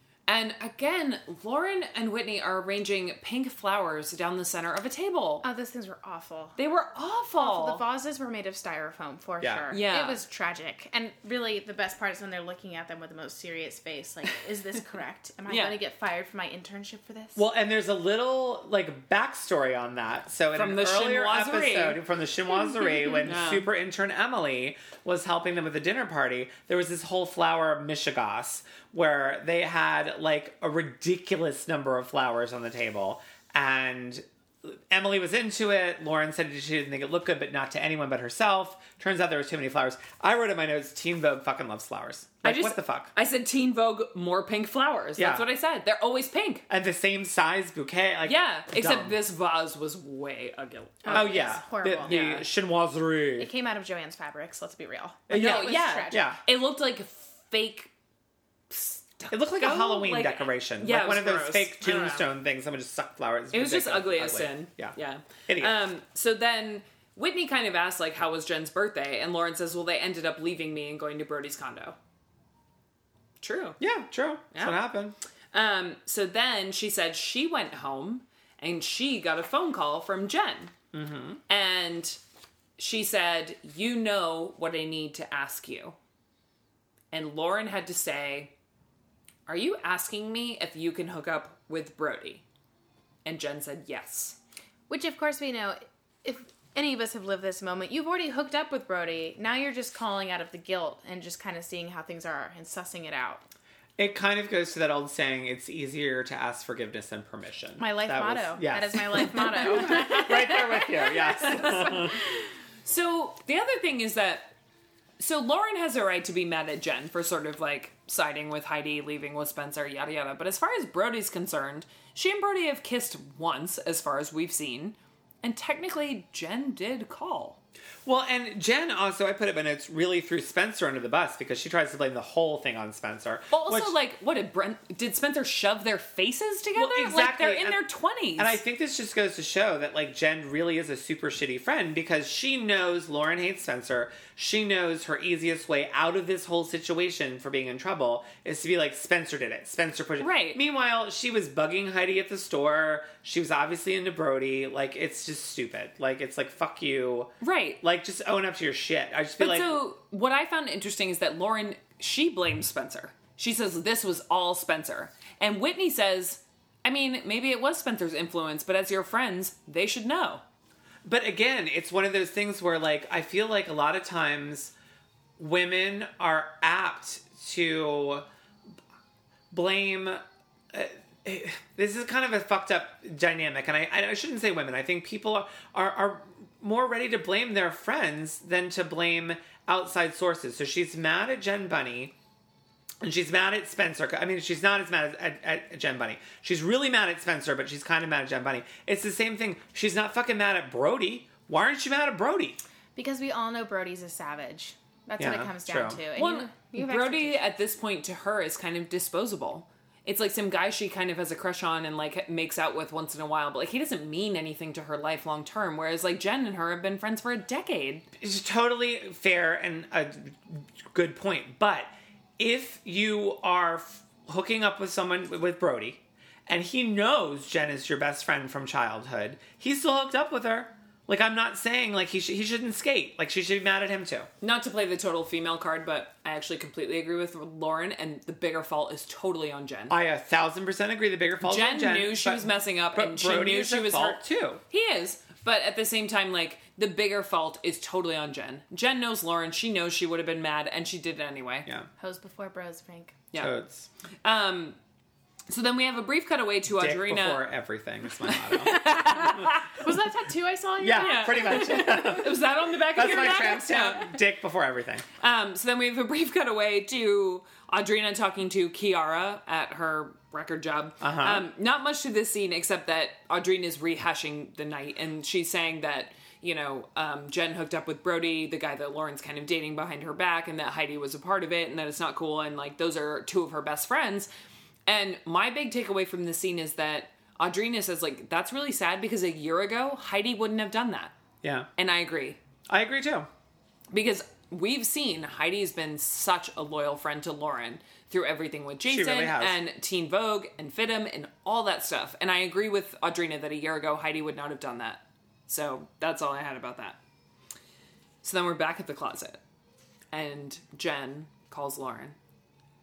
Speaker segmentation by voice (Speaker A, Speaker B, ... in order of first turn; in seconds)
Speaker A: 0.3-5.5, 6.6-7.8, 9.7-10.2, 15.5-15.8, 20.5-22.0, 23.2-23.7, 42.4-46.7, 48.2-51.4, 52.0-52.5, 55.3-57.9, 58.7-62.3, 63.5-72.0, 73.4-73.8, 74.5-74.8, 75.5-80.7, 81.5-82.2, 82.8-86.0, 87.1-88.5, 89.5-92.4, 93.2-94.4, 109.7-114.5, 115.2-127.6, 133.5-138.6, 150.2-150.6, 157.4-157.8, 159.4-170.4, 206.1-218.1, 234.4-240.0, 241.4-251.7, 254.2-254.8, 255.5-257.5, 258.2-259.8, 261.0-264.2, 265.2-284.3, 284.9-291.1, 291.8-292.4, 293.9-307.0, 308.2-309.4, 310.1-312.2
Speaker B: 5.4-6.6, 7.4-17.4, 51.0-52.2, 53.4-56.3, 94.9-103.5, 107.8-110.8, 203.0-207.5, 252.0-253.2, 258.8-262.2
Speaker C: 9.4-9.7, 17.4-43.1, 45.2-45.5, 46.7-49.2, 51.1-53.5, 55.3-56.4, 59.3-65.0, 65.5-65.8, 73.8-75.2, 80.9-81.4, 104.0-112.2, 128.1-133.9, 136.8-137.8, 138.4-159.8, 171.1-174.7, 175.4-178.3, 179.5-180.2, 180.7-192.1, 193.0-202.6, 205.2-206.0, 218.2-234.3, 239.9-244.6, 253.3-253.9, 256.7-259.3, 260.8-265.1, 271.0-271.5, 291.4-291.7, 292.7-293.3, 298.9-299.6